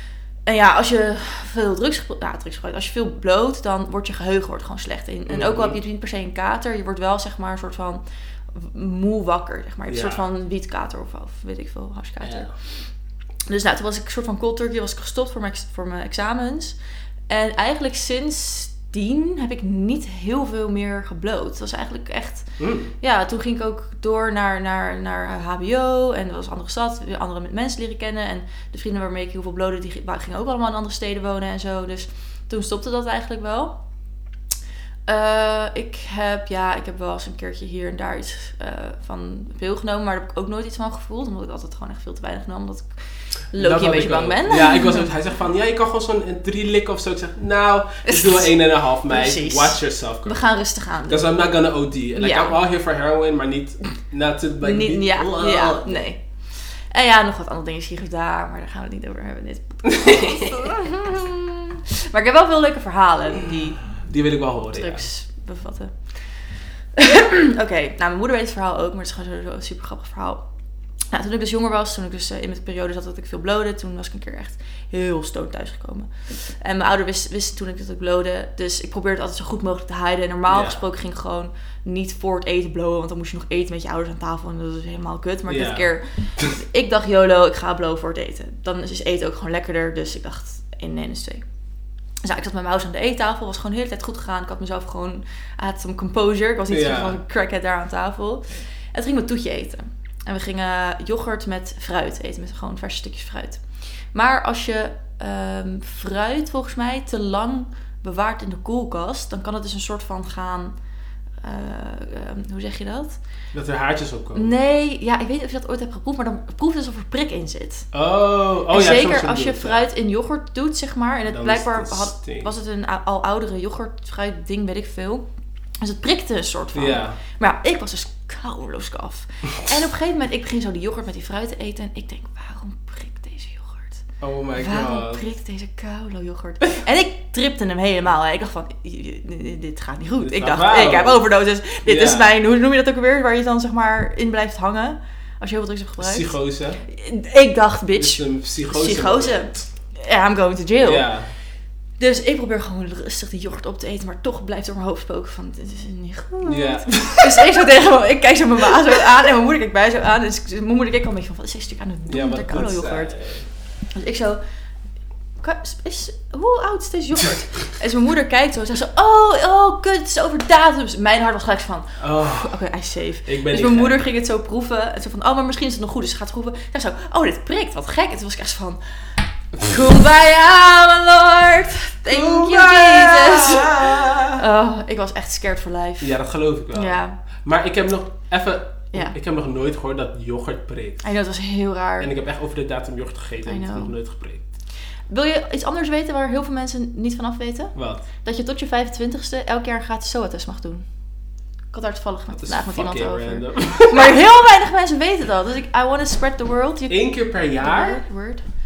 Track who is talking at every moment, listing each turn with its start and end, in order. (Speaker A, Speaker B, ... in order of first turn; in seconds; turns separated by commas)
Speaker A: 0.5-8.0, Speaker B: 5.3-5.8, Speaker A: 8.5-12.5, Speaker B: 9.9-10.2, Speaker B: 12.2-12.5, Speaker A: 13.5-16.8, Speaker A: 17.3-33.7, Speaker B: 22.6-22.9, Speaker A: 35.1-42.9, Speaker A: 43.5-45.1, Speaker B: 43.5-50.5, Speaker A: 48.0-48.5, Speaker A: 49.1-51.5, Speaker B: 51.1-56.0, Speaker A: 52.1-52.6, Speaker A: 54.6-56.2, Speaker A: 56.9-63.8, Speaker B: 60.0-60.8, Speaker B: 63.9-65.1, Speaker A: 64.7-66.1, Speaker A: 67.0-70.4, Speaker A: 71.1-91.4, Speaker B: 80.5-80.8, Speaker B: 85.5-86.5, Speaker A: 92.2-103.6, Speaker B: 96.7-97.2, Speaker A: 104.1-110.7, Speaker A: 111.4-113.2, Speaker B: 113.5-114.5, Speaker A: 114.3-117.9, Speaker B: 117.9-119.9, Speaker A: 118.7-125.2, Speaker B: 121.3-122.5, Speaker A: 125.8-134.0, Speaker B: 126.7-127.2, Speaker B: 134.2-135.2, Speaker A: 134.6-146.3, Speaker B: 140.2-141.2, Speaker B: 141.8-142.3, Speaker B: 146.0-146.8, Speaker A: 146.8-151.1, Speaker B: 147.9-149.7, Speaker B: 150.8-151.3, Speaker A: 152.0-163.1, Speaker B: 156.4-157.5, Speaker B: 162.1-163.5, Speaker A: 163.9-164.4, Speaker A: 165.4-178.8, Speaker B: 172.0-172.5, Speaker B: 173.2-174.1, Speaker A: 179.6-186.1, Speaker B: 182.1-184.4, Speaker B: 186.0-191.0, Speaker A: 186.7-187.2, Speaker A: 191.0-192.1, Speaker B: 192.0-194.4, Speaker A: 193.4-193.9, Speaker A: 195.1-200.8, Speaker B: 197.7-198.0, Speaker A: 201.7-207.1, Speaker B: 202.3-204.2, Speaker B: 206.9-208.0, Speaker A: 207.6-208.4